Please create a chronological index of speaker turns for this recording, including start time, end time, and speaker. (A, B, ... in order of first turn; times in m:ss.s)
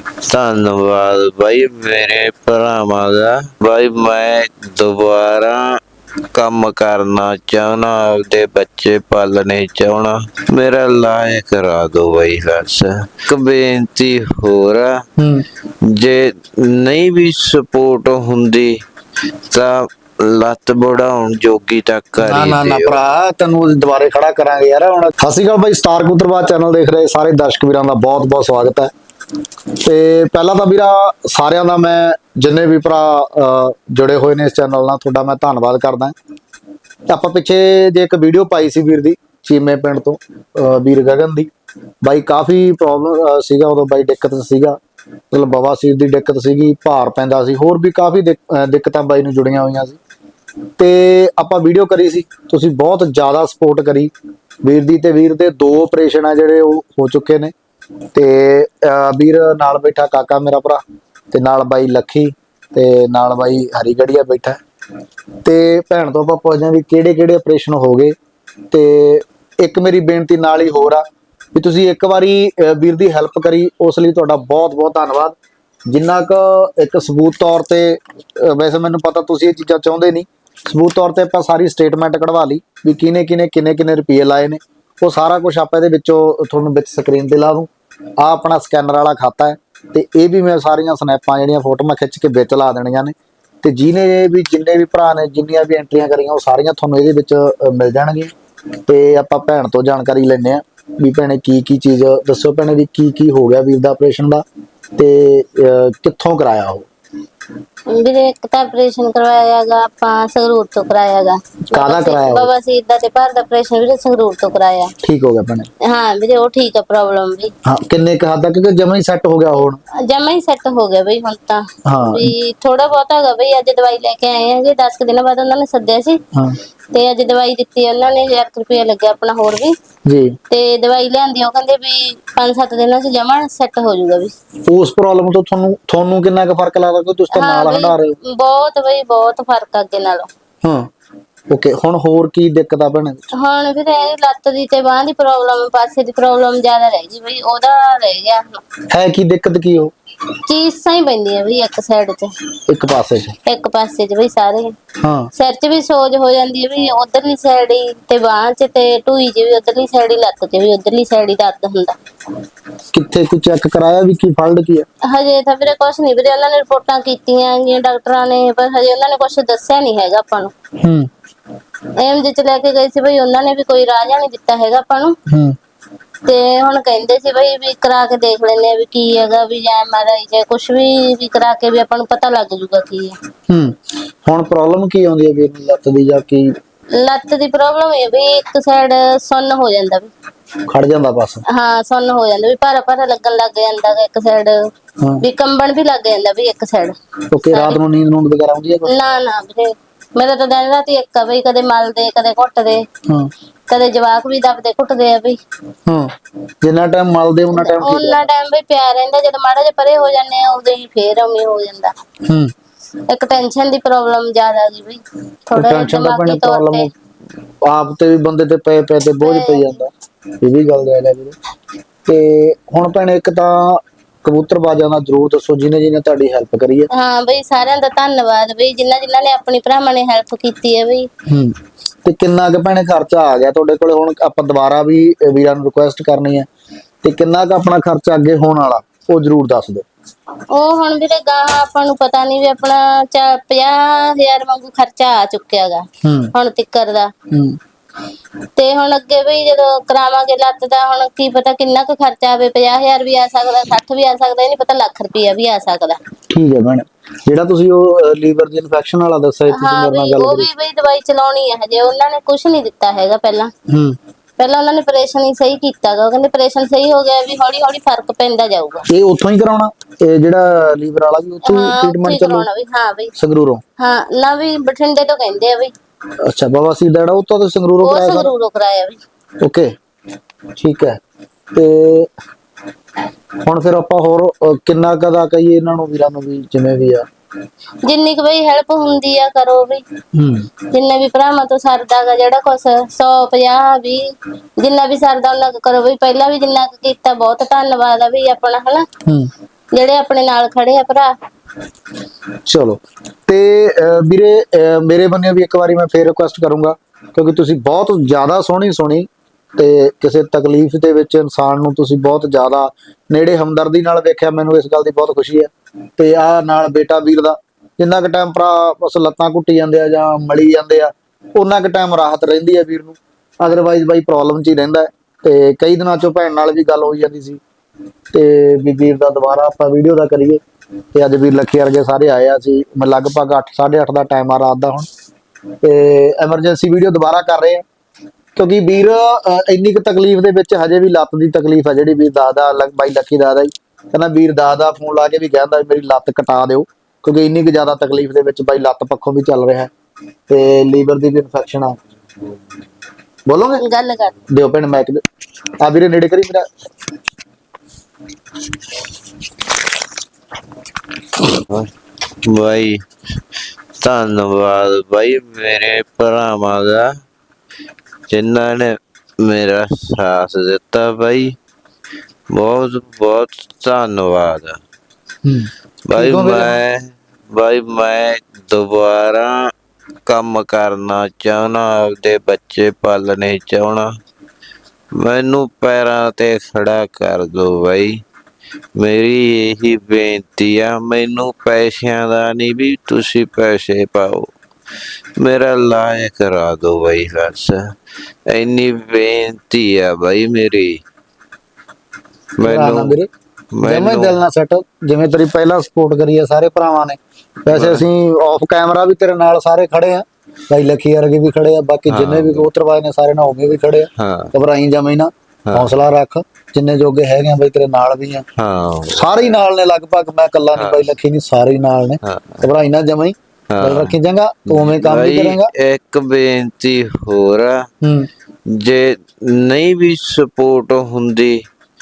0:00.3-0:05.6 A
0:06.4-0:15.0 A
0:15.2-0:15.4 B
0:15.9-0:18.7 A
0:19.5-0:23.0 A
0:22.2-0:28.9 B
0:29.8-0:36.1 B
0:37.1-0:41.5 B
0:42.0-0:44.8 B
0:45.3-0:50.0 B
0:50.8-0:54.1 B
0:54.6-0:57.5 B
0:58.2-1:04.6 B
1:05.4-1:08.2 B
1:08.7-1:11.0 B
1:11.6-1:15.4 B
1:15.9-1:38.3 B
1:38.9-1:44.4 B
1:45.0-1:46.9 B
1:47.9-1:54.9 C
1:51.7-1:52.5 B
1:55.0-1:55.7 B
1:55.8-1:57.5 C
1:57.7-1:59.8 B
2:00.0-2:06.2 C
2:01.9-2:02.3 B
2:06.9-2:09.8 C
2:10.1-2:10.3 B
2:10.5-2:14.3 C
2:14.7-2:18.2 B
2:17.3-2:20.3 C
2:21.5-2:23.2 B
2:23.4-2:28.6 C
2:28.9-2:29.9 B
2:30.5-2:32.3 C
2:32.7-2:33.4 B
2:33.5-2:34.7 C
2:35.0-2:35.3 B
2:35.4-2:42.0 C
2:42.9-2:44.9 B
2:45.1-2:50.5 C
2:50.8-2:51.1 B
2:52.0-2:55.1 C
2:55.3-2:55.6 B
2:56.3-3:03.2 C
3:04.2-3:06.5 B
3:07.0-3:10.1 C
3:10.7-3:11.4 B
3:11.5-3:14.7 C
3:15.2-3:17.0 C
3:17.3-3:18.9 B
3:17.5-3:17.8 C
3:18.9-3:22.8 C
3:23.7-3:25.4 C
3:26.6-3:28.2 B
3:27.5-3:31.9 C
3:33.1-3:36.9 C
3:35.6-3:36.9 B
3:37.7-3:39.9 B
3:39.2-3:39.8 C
3:40.4-3:41.4 B
3:42.1-3:46.9 B
3:46.9-3:51.1 C
3:52.0-3:56.5 B
3:57.0-3:59.9 B
4:00.5-4:07.1 C
4:06.0-4:06.3 B
4:07.3-4:07.6 B
4:08.6-4:16.0 C
4:16.3-4:20.5 B
4:19.5-4:23.5 C
4:23.7-4:24.0 B
4:24.4-4:28.8 C
4:28.9-4:32.5 B
4:31.5-4:33.1 C
4:33.2-4:33.6 B
4:33.8-4:35.7 C
4:36.3-4:38.3 B
4:37.8-4:39.0 C
4:39.4-4:39.7 B
4:40.6-4:41.0 B
4:41.6-4:42.1 B
4:43.4-4:47.1 B
4:47.9-4:49.8 C
4:50.2-4:50.4 B
4:50.7-4:54.0 C
4:54.6-4:58.8 C
4:59.7-5:01.1 C
5:02.5-5:27.4 B
5:28.1-5:30.4 B
5:31.0-5:34.9 B
5:35.6-5:37.6 B
5:38.4-5:49.7 B
5:50.3-5:51.8 B
5:53.3-5:53.6 B
5:53.6-5:54.2 C
5:54.3-5:55.0 B
5:55.6-5:56.4 B
6:01.2-6:01.7 A
6:02.3-6:02.8 A
6:03.8-6:06.8 A
6:08.1-6:11.3 A
6:12.3-6:14.6 A
6:15.2-6:16.6 B
6:15.9-6:19.4 A
6:20.1-6:23.9 A
6:25.0-6:28.0 A
6:28.8-6:34.3 A
6:35.2-6:37.6 A
6:38.3-6:40.8 A
6:42.4-6:43.0 A
6:42.4-6:43.1 B
6:43.6-6:44.2 A
6:43.6-6:58.3 B
6:47.5-6:47.8 A
6:51.9-6:52.5 A
6:54.0-6:54.3 A
6:55.5-6:55.7 A
6:58.4-6:59.1 A
6:58.9-7:05.5 B
7:00.6-7:00.9 A
7:02.1-7:02.5 A
7:03.5-7:03.9 A
7:04.5-7:07.6 A
7:07.8-7:08.1 B
7:08.5-7:11.4 A